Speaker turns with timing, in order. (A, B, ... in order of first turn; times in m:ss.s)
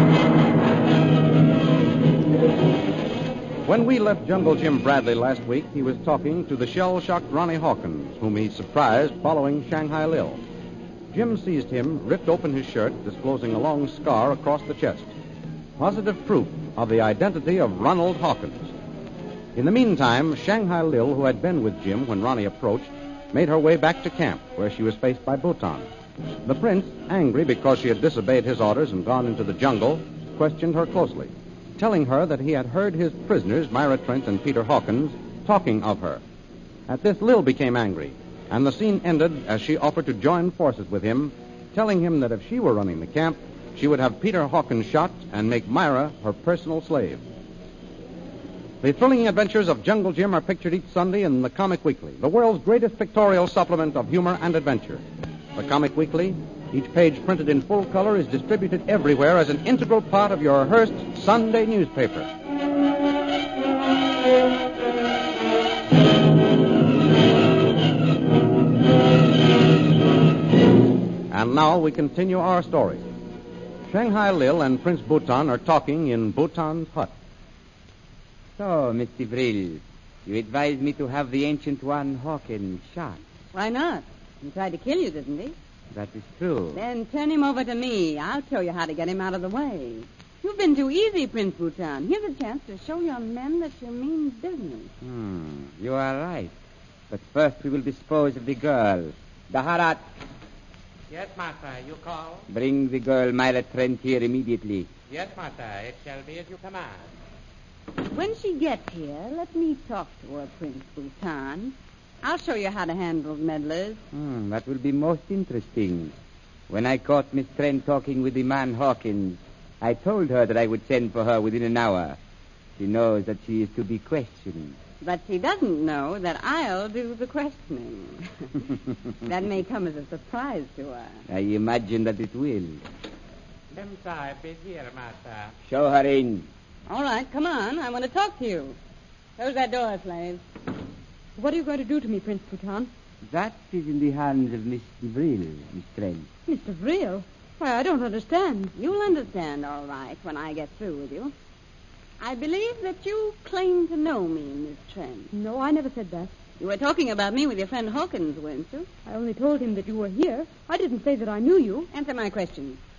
0:03.7-0:10.4 A
0:11.1-0:15.1 A
0:15.8-0:18.7 A
0:19.6-0:25.9 A
0:26.4-0:36.2 A
0:36.9-0:47.2 A
0:48.8-0:55.0 A
0:55.6-1:02.3 A
1:11.3-1:13.0 A
1:13.9-1:17.2 A
1:18.6-1:23.2 B
1:23.5-1:25.6 C
1:25.9-1:26.8 B
1:26.7-1:34.9 C
1:35.0-1:36.5 B
1:37.1-1:40.0 B
1:41.1-1:42.5 D
1:42.5-1:44.9 B
1:45.1-1:47.1 D
1:48.1-1:54.0 C
1:54.1-1:56.2 B
1:56.7-2:02.2 B
2:02.8-2:04.8 B
2:05.0-2:08.7 C
2:09.2-2:11.2 C
2:11.3-2:12.8 B
2:13.7-2:15.5 D
2:15.7-2:16.5 B
2:16.9-2:18.8 C
2:19.4-2:20.4 C
2:21.4-2:22.9 E
2:23.2-2:26.3 B
2:26.5-2:28.7 E
2:28.8-2:31.3 C
2:32.2-2:35.3 C
2:35.3-2:36.3 E
2:36.6-2:38.9 C
2:39.1-2:41.9 E
2:41.9-2:42.8 C